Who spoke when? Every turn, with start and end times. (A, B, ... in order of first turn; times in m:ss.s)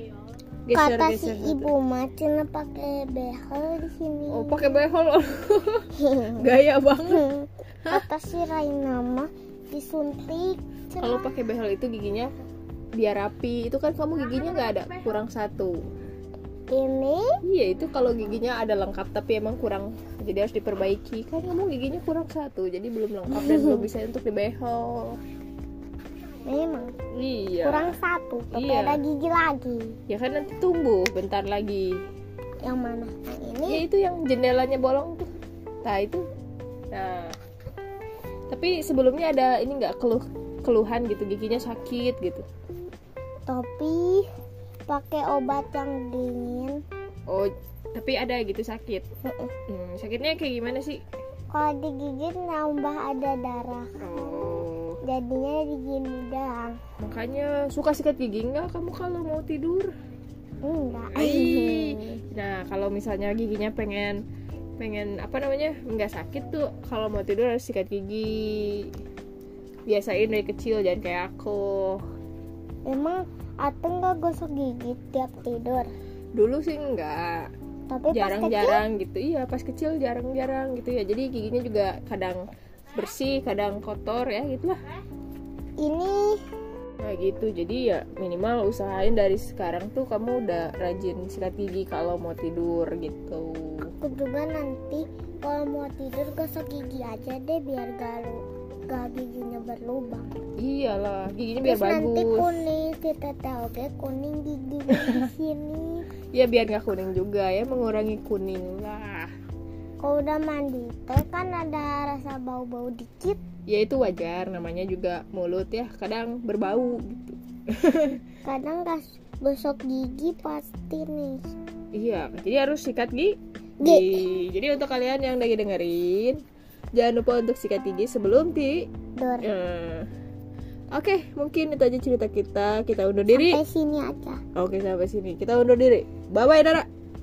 0:00.7-0:01.7 A
0:00.7-0:04.7 B
0:04.3-0:07.3 A
0:06.0-0:06.4 B
0:07.1-0:11.3 B
0:11.0-0:12.3 A
0:13.0-0:15.8 A
0:16.7-0:17.4 B
0:17.4-0:25.2 A
0:23.3-0:23.8 B
0:26.5-0:26.9 B
0:27.1-0:28.0 A
0:27.6-0:30.0 B
0:28.5-0:29.0 A
0:30.1-0:32.0 A
0:32.6-0:33.8 B
0:33.7-0:35.3 A
0:35.8-0:36.2 A
0:36.9-0:37.4 A
0:38.5-0:42.4 A
0:43.5-0:44.2 B
0:44.9-0:46.8 B
0:47.3-0:49.0 A
0:49.2-0:49.5 B
0:49.7-0:51.0 A
0:51.5-0:54.0 B
0:54.0-0:55.0 A
0:55.0-0:56.8 B
0:57.0-0:59.9 A
1:00.6-1:02.2 B
1:01.1-1:04.2 A
1:04.8-1:08.9 A
1:09.9-1:12.0 A
1:12.8-1:15.9 B
1:16.3-1:17.5 A
1:17.9-1:18.8 B
1:18.1-1:24.8 A
1:25.8-1:26.4 B
1:27.0-1:33.9 A
1:34.0-1:40.3 B
1:40.6-1:42.6 A
1:41.6-1:46.0 B
1:44.9-1:45.3 A
1:46.3-1:49.3 A
1:50.0-1:53.4 B
1:53.7-1:58.2 A
1:58.4-2:01.4 B
2:01.9-2:06.4 A
2:03.8-2:04.2 B
2:07.0-2:08.9 A
2:09.2-2:09.5 B
2:09.4-2:10.1 A
2:10.9-2:13.6 A
2:13.3-2:14.4 B
2:14.6-2:16.9 A